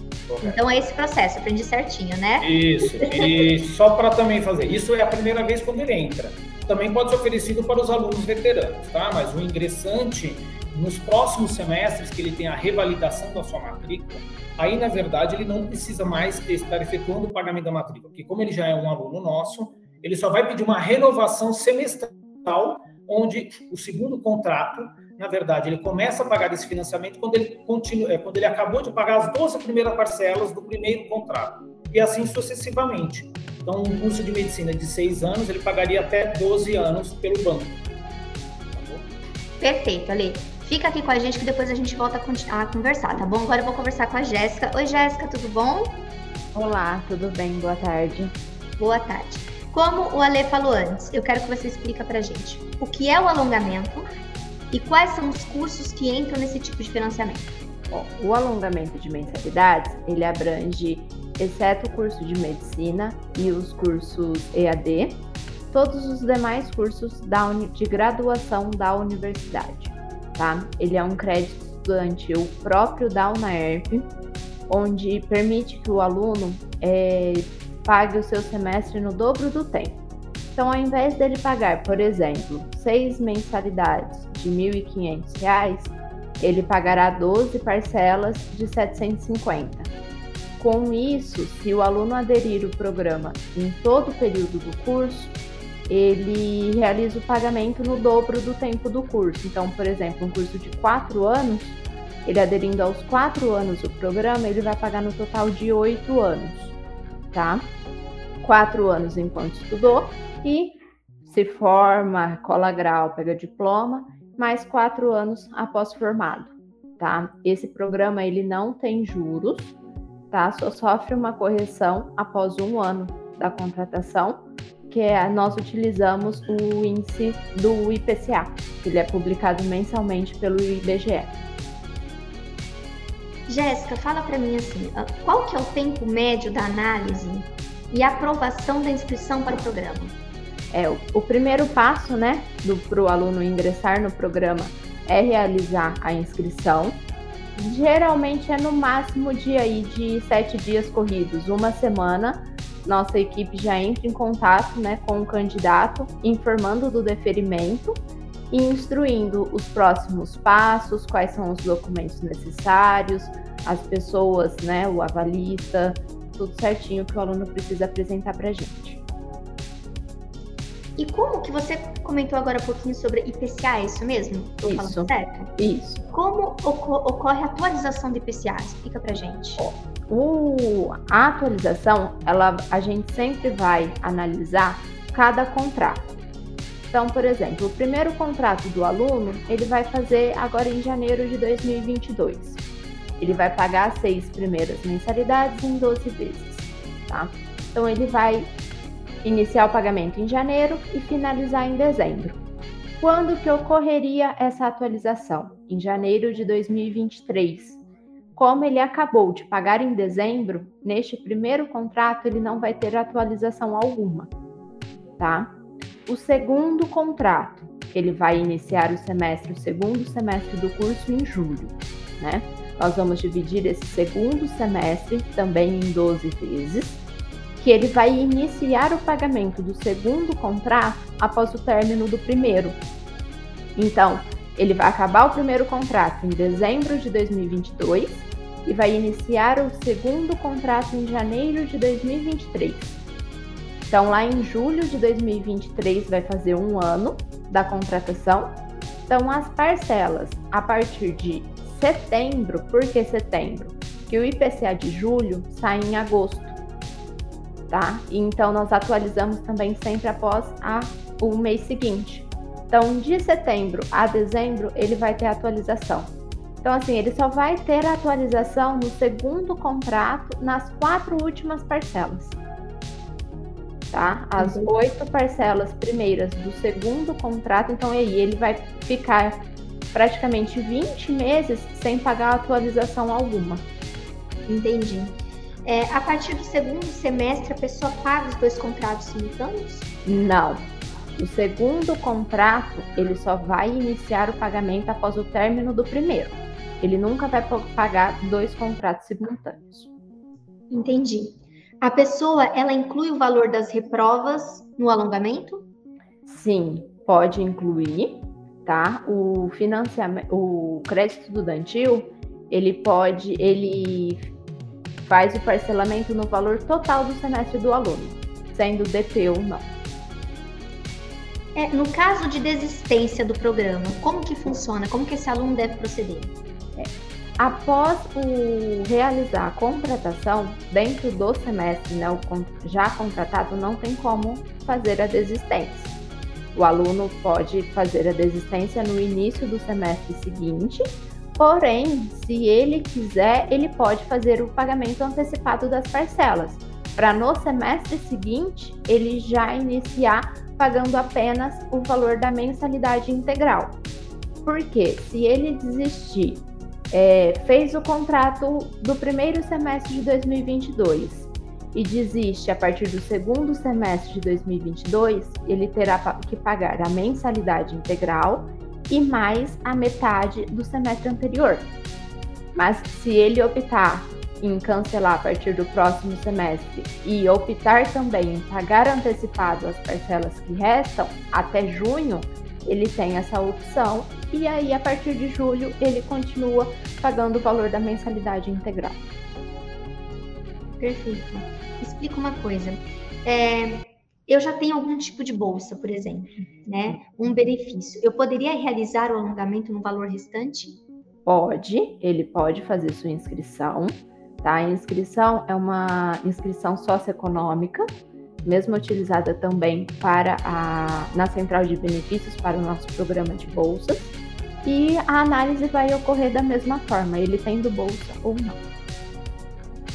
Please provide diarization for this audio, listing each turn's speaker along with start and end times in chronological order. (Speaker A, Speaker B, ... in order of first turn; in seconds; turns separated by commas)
Speaker A: 0.3-0.6, Speaker B: 0.4-3.3, Speaker A: 2.4-37.8, Speaker A: 38.7-39.1, Speaker B: 39.6-46.0, Speaker C: 46.5-48.3, Speaker B: 48.8-54.1, Speaker B: 54.7-57.5, Speaker C: 57.9-74.1, Speaker C: 74.7-80.0, Speaker C: 80.5-89.9, Speaker C: 90.6-95.3, Speaker C: 95.9-106.8, Speaker C: 107.3-107.7, Speaker C: 108.4-119.8, Speaker C: 120.3-131.3, Speaker B: 133.5-140.1, Speaker C: 140.7-147.0, Speaker C: 147.6-158.0, Speaker C: 158.5-169.0, Speaker B: 171.0-175.5, Speaker C: 174.6-176.1, Speaker B: 176.1-179.6, Speaker C: 179.6-186.2, Speaker C: 186.9-192.6, Speaker C: 193.2-198.5, Speaker C: 199.2-202.4, Speaker C: 203.0-207.8, Speaker C: 208.4-214.3, Speaker C: 215.2-215.5, Speaker C: 216.1-227.0, Speaker C: 227.6-232.8, Speaker C: 233.8-243.0, Speaker C: 243.9-248.6, Speaker C: 249.1-256.6, Speaker C: 257.7-266.1, Speaker C: 266.6-272.4, Speaker C: 273.9-279.4, Speaker B: 274.4-274.7, Speaker C: 279.9-283.7, Speaker B: 284.5-289.9, Speaker C: 290.1-290.7, Speaker C: 291.2-299.9, Speaker B: 300.7-305.6, Speaker C: 306.3-314.3, Speaker C: 315.0-319.7, Speaker B: 321.6-326.3, Speaker C: 326.8-335.9, Speaker C: 336.5-340.8, Speaker C: 341.4-353.8, Speaker C: 354.4-371.7, Speaker C: 372.6-389.0, Speaker B: 390.8-400.8, Speaker C: 401.3-407.9, Speaker C: 408.4-418.6